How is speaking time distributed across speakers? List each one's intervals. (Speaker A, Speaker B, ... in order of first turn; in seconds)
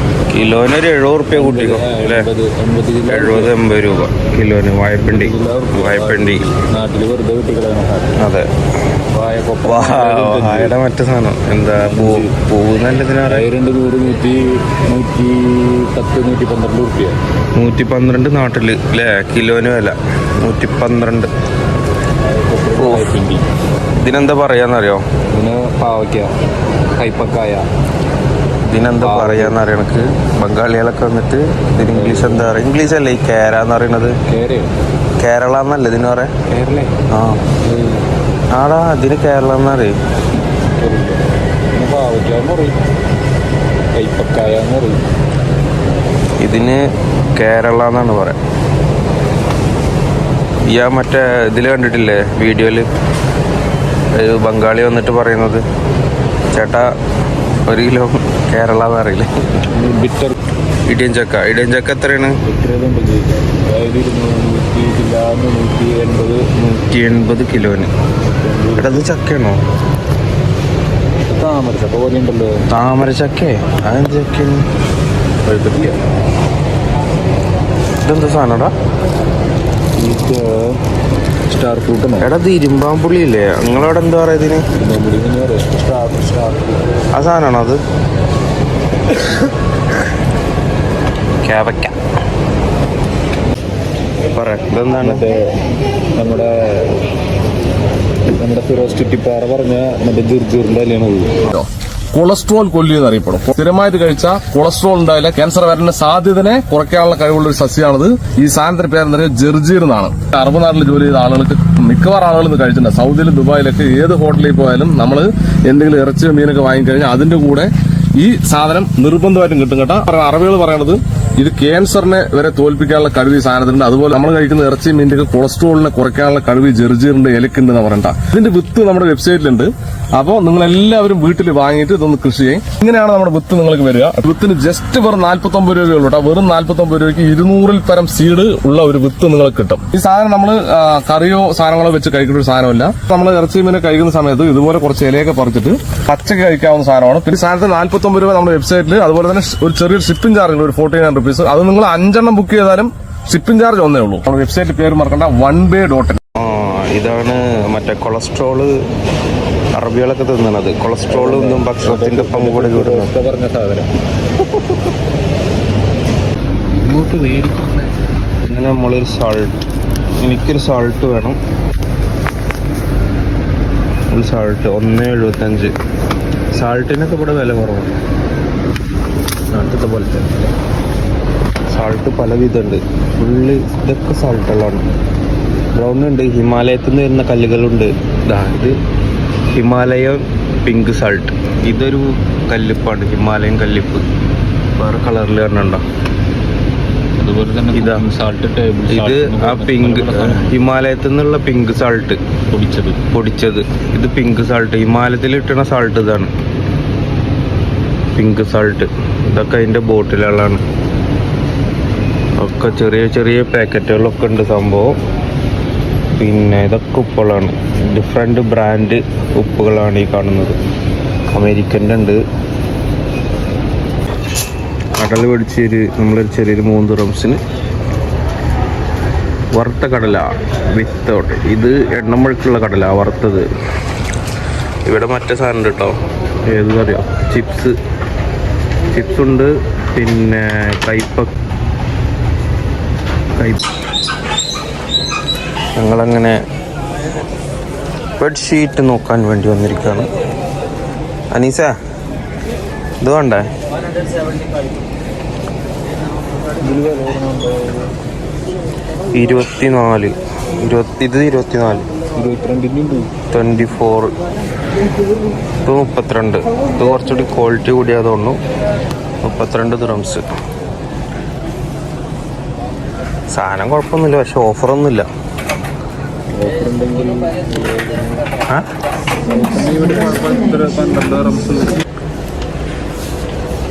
Speaker A: 0.3-2.3, 3.1-6.4, 8.2-8.5, 9.6-13.4, 17.6-21.3, 22.8-23.1, 24.0-25.0, 28.7-34.1, 35.2-36.3, 37.1-37.4, 38.5-39.9, 46.4-46.8, 47.4-48.4, 50.7-52.9, 54.1-55.6, 56.5-56.9, 57.6-59.3, 60.9-62.3, 66.5-67.9, 68.8-69.6, 72.7-74.6, 78.0-78.7, 82.2-84.6, 87.1-87.8, 91.4-91.9, 94.3-95.2, 156.4-158.8, 159.7-163.1, 168.4-169.5, 170.2-171.4, 174.1-175.7, 176.6-177.9, 179.5-180.4, 181.7-184.8, 185.8-188.8, 189.6-194.0, 194.8-195.8, 197.7-198.0, 198.9-202.2, 203.1-206.3, 208.1-210.6, 212.4-214.9, 216.1-220.6, 221.3-222.2, 225.0-227.4, 229.5-233.5, 234.9-237.8, 238.9-241.3, 243.4-243.6, 245.8-246.4, 248.2-250.1, 251.3-251.7, 253.0-253.5, 259.1-261.9, 263.3-264.1, 265.6-268.4, 269.2-270.2, 273.3-275.1
Speaker B: 1.3-3.5, 5.0-8.1, 9.1-10.7, 11.8-12.3, 13.3-17.2, 22.2-23.4, 25.3-26.3, 26.9-27.7, 29.0-29.6, 31.9-32.5, 34.3-34.7, 36.5-37.0, 37.6-38.0, 40.8-42.7, 44.0-45.0, 59.7-60.3, 62.4-66.4, 68.4-69.1, 71.3-72.5, 75.4-76.0, 80.0-80.8, 81.5-82.3, 84.7-86.8, 95.0-95.5, 96.2-96.9, 98.3-101.3, 161.1-163.9, 166.8-167.8, 197.2-200.6, 202.5-203.0, 256.6-257.9, 262.1-263.1, 276.3-278.3, 279.3-281.8
Speaker C: 101.5-156.2